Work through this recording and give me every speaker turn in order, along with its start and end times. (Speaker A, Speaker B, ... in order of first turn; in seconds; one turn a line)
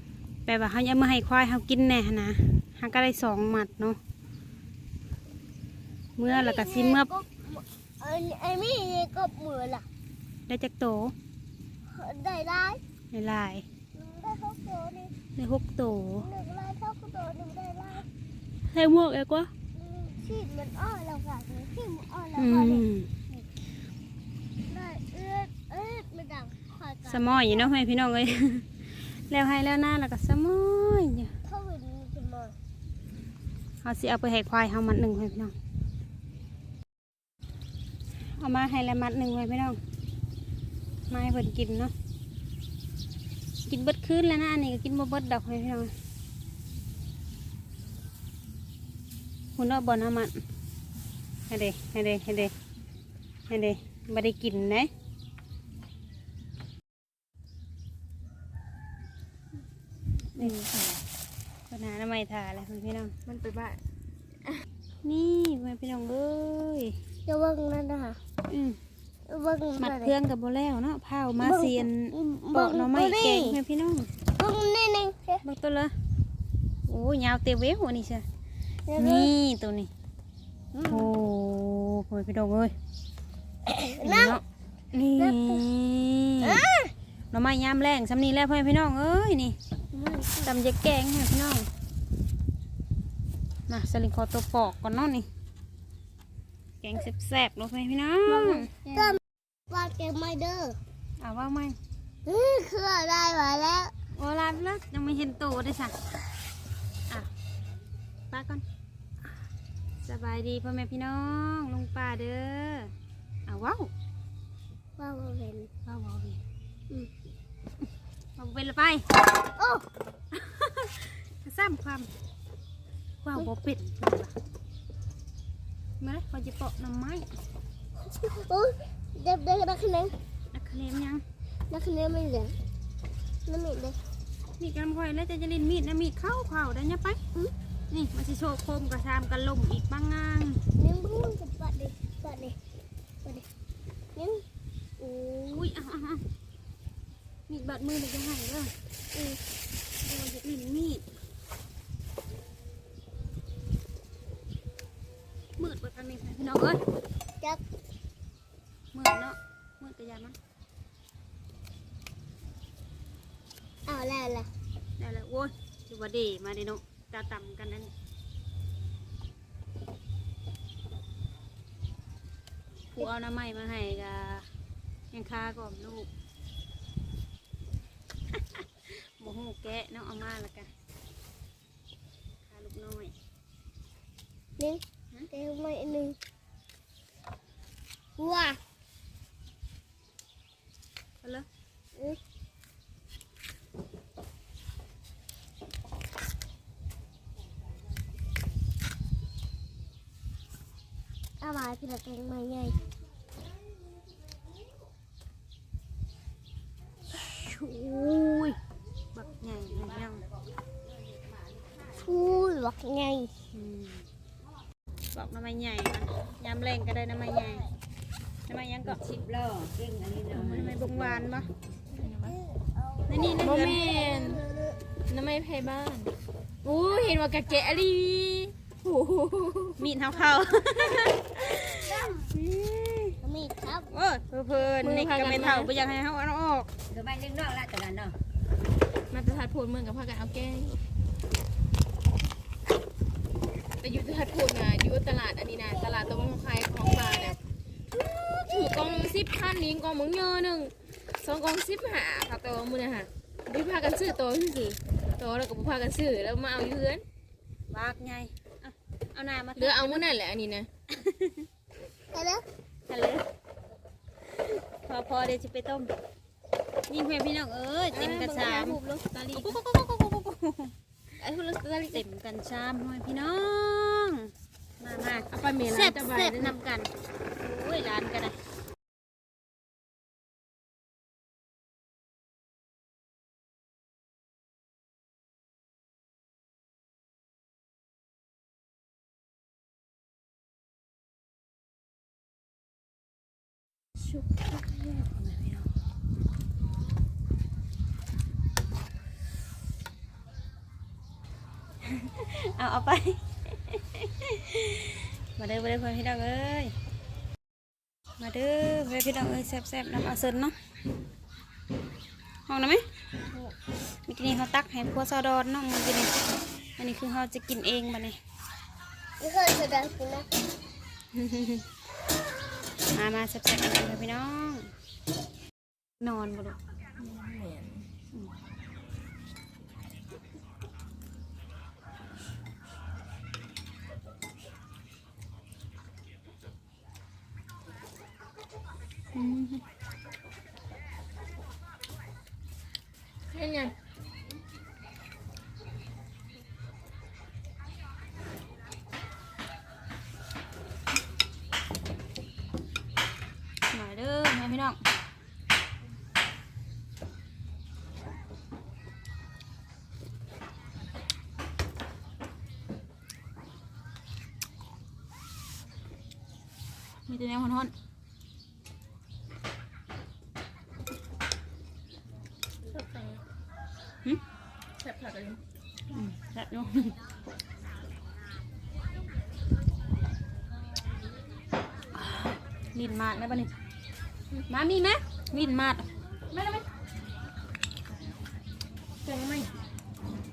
Speaker A: 0.5-4.0
Speaker A: 6.2-7.1
Speaker B: 6.3-9.8
Speaker A: 10.5-11.2
Speaker B: 11.9-12.8
Speaker A: 13.1-13.7
Speaker B: 13.9-15.1
Speaker A: 15.4-16.3
Speaker B: 16.2-18.1
Speaker A: 18.7-19.5
Speaker B: 19.8-23.4
Speaker A: 22.4-23.1
Speaker B: 24.7-27.7
Speaker A: 27.1-31.3
Speaker B: 31.4-32.5
Speaker A: 33.8-35.5
Speaker A: 38.4-39.8
Speaker A: 41.1-41.9
Speaker A: 43.7-45.9
Speaker A: 49.6-50.3
Speaker A: 51.5-52.5
Speaker A: 53.5-54.9
Speaker A: 60.4-60.6
Speaker A: 61.7-63.1
Speaker C: 63.3-63.8
Speaker A: 65.0-67.0
Speaker B: 67.3-68.2
Speaker A: 68.5-68.8
Speaker B: 69.3-70.2
Speaker A: 69.8-74.1
Speaker B: 71.4-73.6
Speaker B: 74.4-75.4
Speaker A: 75.4-75.9
Speaker A: 76.9-78.2
Speaker B: 78.9-79.3
Speaker A: 79.0-79.9
Speaker B: 80.7-81.1
Speaker A: 80.9-82.7
Speaker B: 83.7-84.4
Speaker A: 84.0-84.4
Speaker A: 84.9-86.6
Speaker B: 85.2-85.6
Speaker B: 86.4-86.9
Speaker A: 87.3-89.6
Speaker B: 89.9-90.5
Speaker A: 90.5-91.7
Speaker A: 93.7-95.3
Speaker A: 96.8-99.1
Speaker B: 98.3-100.8
Speaker A: 101.2-101.8
Speaker B: 102.2-103.9
Speaker A: 104.2-106.0
Speaker A: 108.3-108.6
Speaker A: 110.0-112.9
Speaker A: 113.5-113.9
Speaker B: 115.0-115.7
Speaker A: 115.9-116.4
Speaker A: 118.4-119.1
Speaker B: 119.6-119.8
Speaker A: 120.3-122.1
Speaker A: 123.2-124.3
Speaker A: 126.0-127.3
Speaker B: 128.0-130.1
Speaker A: 130.5-131.2
Speaker B: 131.7-132.6
Speaker B: 133.5-134.0
Speaker A: 134.6-137.2
Speaker A: 137.9-140.6
Speaker B: 140.8-142.6
Speaker B: 144.2-144.4
Speaker A: 145.0-146.2
Speaker A: 147.5-148.7
Speaker B: 149.1-149.4
Speaker A: 150.0-151.0
Speaker A: 155.6-156.8
Speaker A: 158.9-160.4
Speaker B: 163.9-164.5
Speaker A: 165.0-167.9
Speaker A: 172.9-174.5
Speaker A: 175.1-176.1
Speaker A: 178.3-180.7
Speaker A: 182.4-183.1
Speaker B: 184.6-186.2
Speaker B: 188.2-188.6
Speaker B: 201.4-202.8
Speaker A: 207.3-208.6
Speaker A: 209.1-210.3
Speaker B: 211.9-213.3
Speaker A: 213.5-214.1
Speaker A: 215.1-217.7
Speaker A: 218.5-219.2
Speaker D: 219.2-220.1
Speaker A: 220.1-221.5
Speaker C: 220.3-220.7
Speaker C: 221.9-222.4
Speaker B: 222.3-224.8
Speaker A: 223.1-223.8
Speaker C: 223.4-224.4
Speaker C: 225.1-226.1
Speaker C: 226.6-229.8
Speaker A: 229.8-233.2
Speaker B: 233.2-233.9
Speaker A: 233.9-236.7
Speaker C: 234.8-235.7
Speaker D: 237.0-237.9
Speaker A: 237.8-238.1
Speaker C: 239.1-240.8
Speaker C: 243.8-247.4
Speaker C: 247.9-257.0
Speaker A: 257.7-260.1
Speaker C: 259.6-260.7
Speaker A: 260.9-261.5
Speaker B: 262.1-262.4
Speaker A: 262.9-263.2
Speaker A: 264.3-265.9
Speaker A: 266.9-270.7
Speaker C: 267.9-269.6
Speaker C: 271.2-272.0
Speaker A: 271.9-278.4
Speaker C: 275.3-276.6
Speaker A: 294.7-295.7
Speaker A: 301.9-306.7
Speaker A: 308.2-310.5
Speaker A: 312.5-312.8
Speaker A: 314.0-318.2
Speaker B: 319.2-320.3
Speaker A: 321.1-321.7
Speaker A: 322.9-324.7
Speaker A: 326.0-326.6
Speaker C: 327.0-327.9
Speaker A: 339.1-339.6
Speaker C: 343.3-343.8
Speaker A: 353.7-354.8
Speaker A: 367.1-367.7
Speaker C: 372.7-373.2
Speaker C: 374.8-375.4
Speaker A: 375.9-376.9
Speaker A: 381.9-383.5
Speaker A: 384.5-385.9
Speaker C: 386.3-386.6
Speaker C: 389.1-389.5